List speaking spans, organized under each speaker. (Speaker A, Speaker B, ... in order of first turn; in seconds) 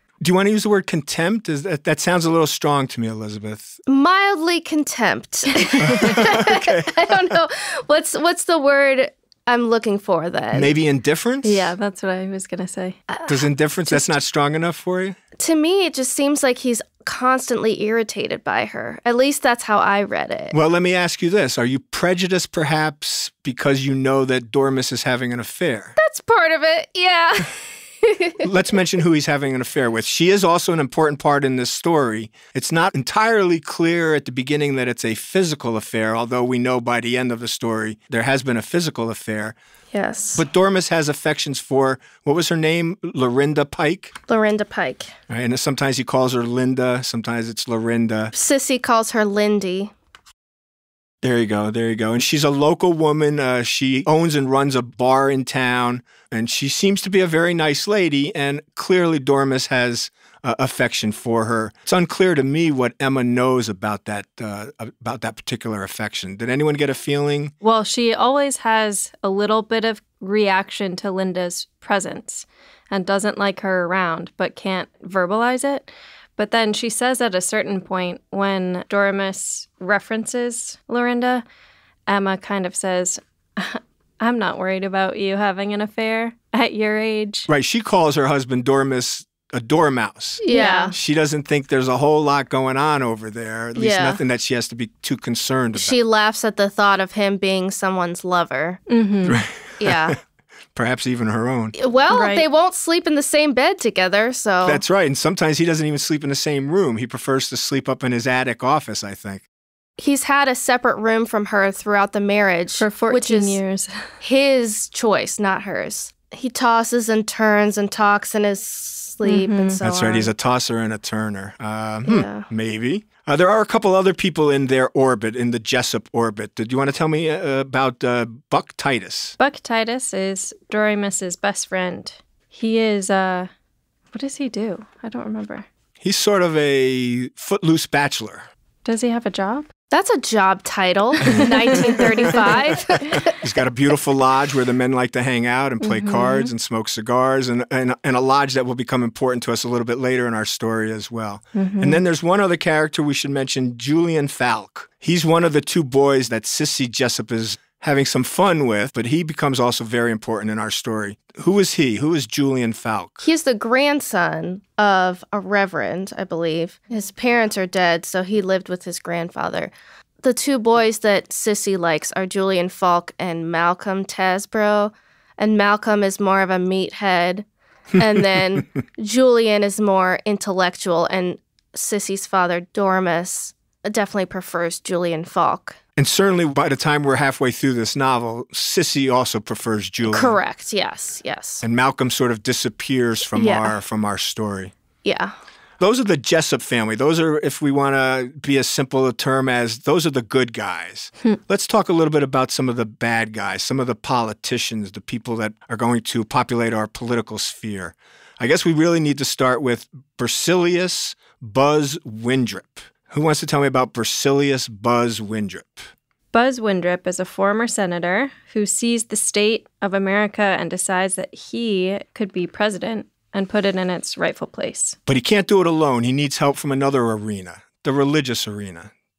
Speaker A: 0.2-3.8, 5.8-7.1, 10.5-11.7, 13.3-15.2, 20.5-26.0, 28.4-39.6, 40.4-44.1, 45.3-48.3, 51.2-67.5, 87.5-96.0, 99.3-100.2, 100.8-101.8, 104.6-109.4, 119.8-129.3, 136.0-138.5, 141.2-141.5, 143.1-163.2, 186.0-190.4, 191.6-194.7, 195.8-215.9, 225.1-228.9
Speaker B: 3.9-10.7, 11.4-11.8, 13.1-14.2, 15.4-20.6, 26.0-28.4, 39.9-40.5, 44.3-45.1, 48.3-49.9, 90.4-91.0, 93.8-94.2, 95.8-98.8, 99.8-100.2, 101.8-104.8, 110.0-113.6, 114.2-120.3, 122.1-122.5, 139.9-143.3, 163.2-177.5, 178.0-185.8, 190.1-191.6, 193.3-193.8, 195.0-195.3
Speaker C: 11.7-13.0, 67.6-81.4, 82.1-87.5, 90.4-91.0, 98.9-99.4, 102.1-102.5, 112.8-113.9, 119.2-119.8, 129.4-133.5, 134.1-135.7, 138.8-139.7, 141.2-143.2, 145.8-146.5, 151.6-152.0, 216.3-225.0